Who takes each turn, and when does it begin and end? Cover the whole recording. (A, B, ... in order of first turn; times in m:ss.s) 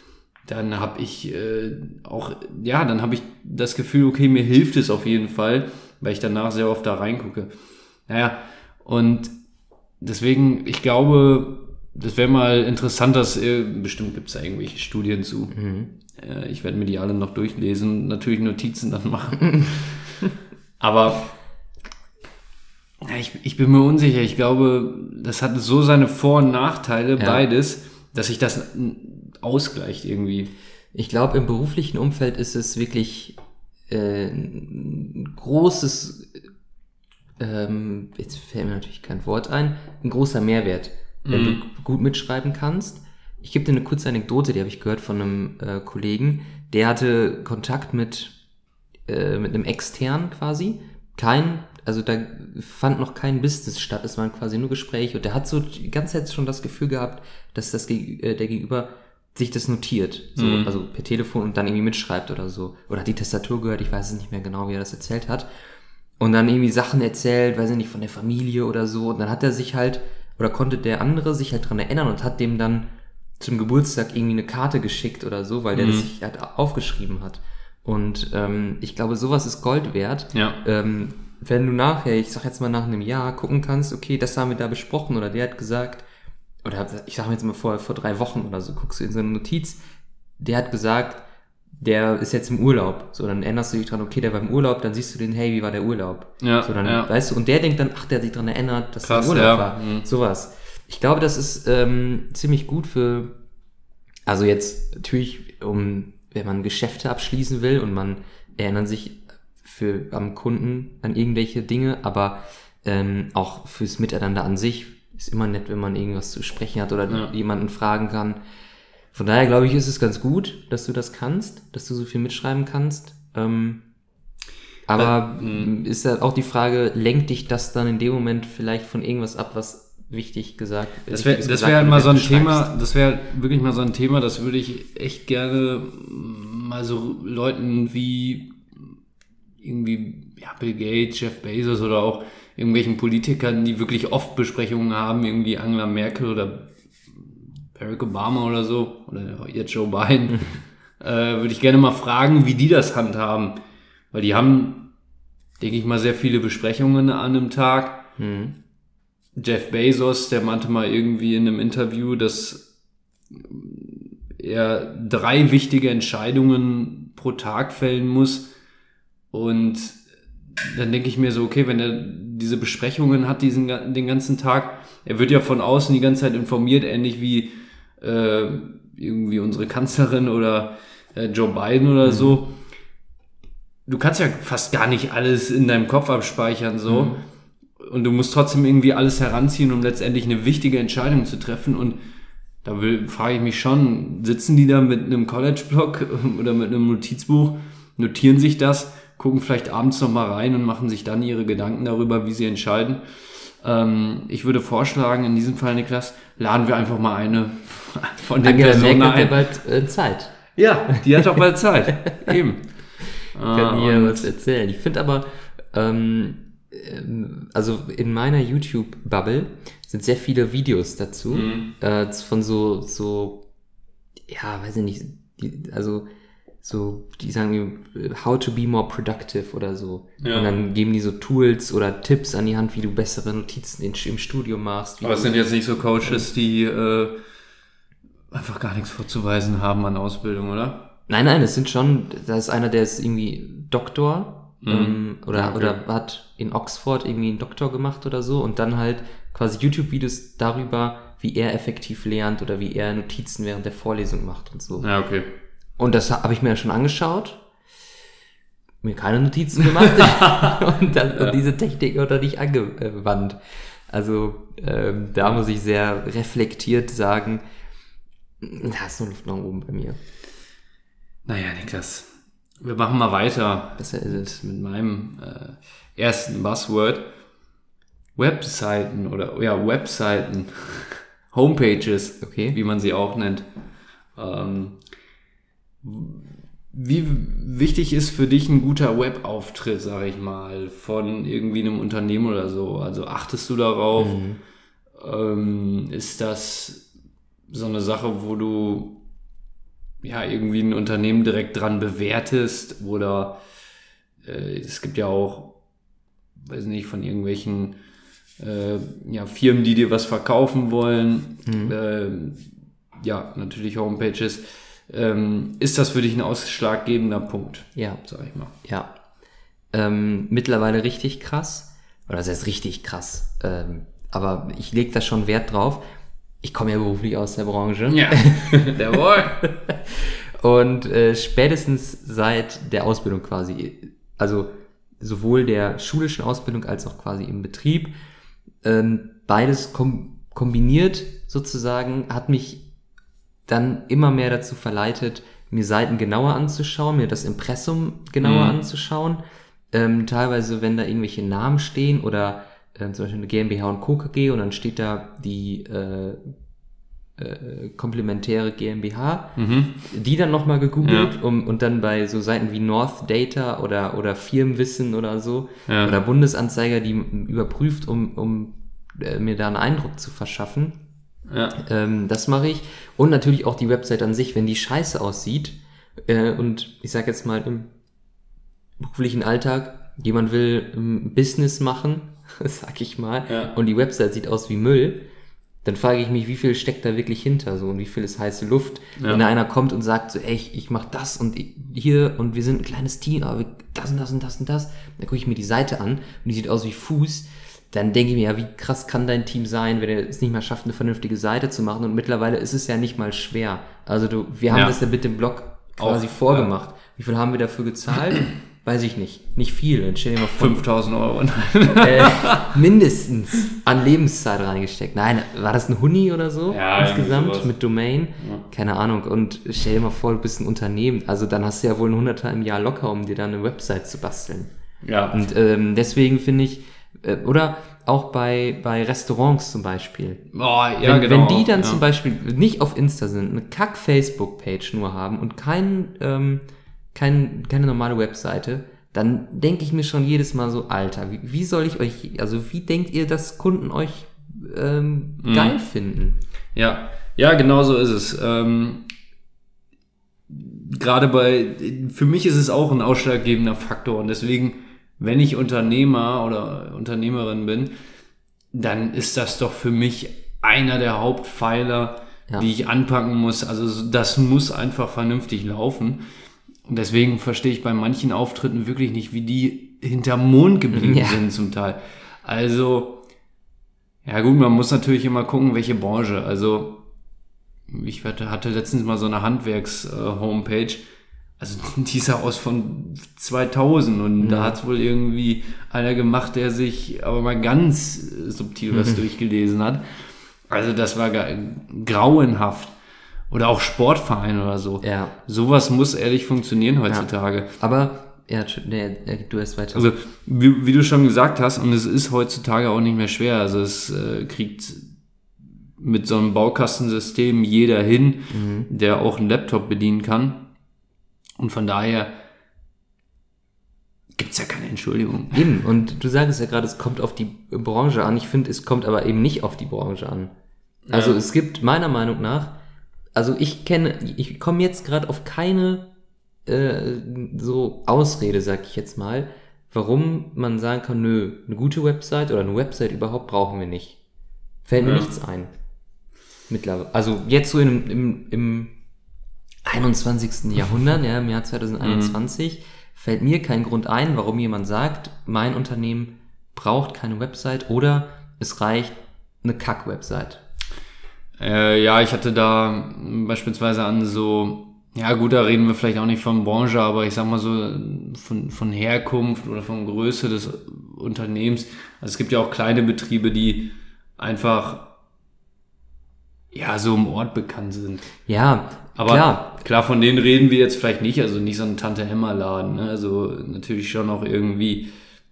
0:00.4-0:07.5 A
0:08.1-0:09.3 A
0:10.0-0:15.6 A
0:15.5-0:15.9 B
0:16.1-0:20.2 A
0:20.8-0:21.3 A
0:23.0-0:30.5 A
0:27.2-0:27.4 B
0:30.9-0:33.3 B
0:33.9-0:36.4 B
0:37.4-0:48.3 B
0:41.2-0:41.6 A
0:49.1-1:05.5 B
1:00.4-1:00.7 A
1:06.2-1:12.9 B
1:13.4-1:26.0 B
1:15.7-1:16.1 A
1:20.3-1:20.6 A
1:26.6-1:29.8 B
1:30.4-1:31.2 B
1:31.8-1:43.3 B
1:36.4-1:37.1 A
1:39.0-1:40.0 A
1:44.2-1:58.4 B
1:59.1-2:03.8 B
2:04.9-2:12.7 B
2:05.0-2:05.7 A
2:11.1-2:18.9 A
2:19.6-2:33.5 A
2:30.3-2:30.6 B
2:34.1-2:34.9 A
2:35.6-2:38.0 A
2:38.2-2:38.5 B
2:39.3-2:42.7 A
2:43.3-2:48.5 A
2:49.3-2:50.0 A
2:50.6-3:02.6 A
3:02.0-3:02.4 B
3:03.8-3:07.2 A
3:06.9-3:07.2 B
3:07.8-3:12.0 A
3:12.6-3:29.4 A
3:28.4-3:30.4 B
3:30.6-3:32.7 A
3:30.9-3:31.4 B
3:33.3-3:34.3 A
3:33.5-3:43.4 B
3:41.3-3:41.7 A
3:44.3-3:46.0 B
3:46.6-3:55.5 B
3:50.2-3:50.5 A
3:55.0-3:57.2 A
3:58.3-4:00.9 A
4:01.1-4:14.9 B
4:04.6-4:05.8 A
4:14.8-4:15.3 A
4:15.8-4:17.4 B
4:18.8-4:27.4 B
4:19.8-4:20.6 A
4:28.4-4:30.0 B
4:31.2-4:32.1 A
4:32.6-4:37.1 A
4:33.8-4:34.4 B
4:38.2-4:43.4 A
4:42.2-4:42.6 B
4:44.2-4:44.8 A
4:45.8-4:54.2 A
4:54.0-4:54.4 B
4:55.0-4:56.8 A
4:57.5-4:59.0 A
5:00.0-5:03.4 A
5:04.2-5:05.5 A
5:06.4-5:07.8 A
5:08.4-5:18.5 A
5:11.4-5:11.7 B
5:17.8-5:18.0 B
5:18.6-5:18.9 B
5:19.7-5:25.8 B
5:26.4-5:34.5 B
5:27.9-5:29.4 A
5:35.0-5:37.9 B
5:38.6-5:42.6 B
5:43.5-5:49.2 B
5:48.2-5:48.6 A
5:49.7-5:56.3 B
5:57.2-5:59.3 B
5:59.4-5:59.8 A
5:59.9-6:10.8 B
6:00.8-6:01.1 A
6:05.7-6:05.9 A
6:11.3-6:11.6 A
6:11.6-6:17.7 B
6:18.8-6:25.0 B
6:23.3-6:23.5 A
6:25.6-6:50.6 B
6:44.5-6:44.8 A
6:45.8-6:46.5 A
6:50.4-6:52.5 A
6:51.8-7:04.5 B
6:56.5-6:57.5 A
6:58.2-6:58.4 A
7:04.8-7:05.2 A
7:05.1-7:10.2 B
7:10.3-7:11.8 A
7:10.8-7:26.2 B
7:25.2-7:25.6 A
7:26.5-7:28.9 A
7:30.3-7:37.7 A
7:38.5-7:46.0 A
7:46.6-7:53.0 A
7:50.7-7:51.2 B
7:54.0-7:56.8 A
7:57.7-8:00.8 A
8:01.4-8:12.7 A
8:04.2-8:04.6 B
8:08.7-8:09.0 B
8:13.3-8:17.5 A
8:14.8-8:15.2 B
8:17.6-8:19.9 B
8:19.7-8:24.9 A
8:25.8-8:30.4 A
8:28.3-8:28.7 B
8:31.4-8:32.1 A
8:34.1-8:35.4 A
8:35.3-8:40.3 B
8:40.9-8:41.2 A
8:40.9-8:42.5 B
8:43.1-8:45.8 B
8:46.4-8:54.0 B
8:54.6-8:55.5 B
8:54.8-8:55.1 A
8:56.5-8:58.7 B
8:59.6-9:10.4 B
9:01.8-9:02.1 A
9:11.4-9:24.9 A
9:26.5-9:28.0 A
9:28.3-9:29.5 B
9:29.0-9:34.9 A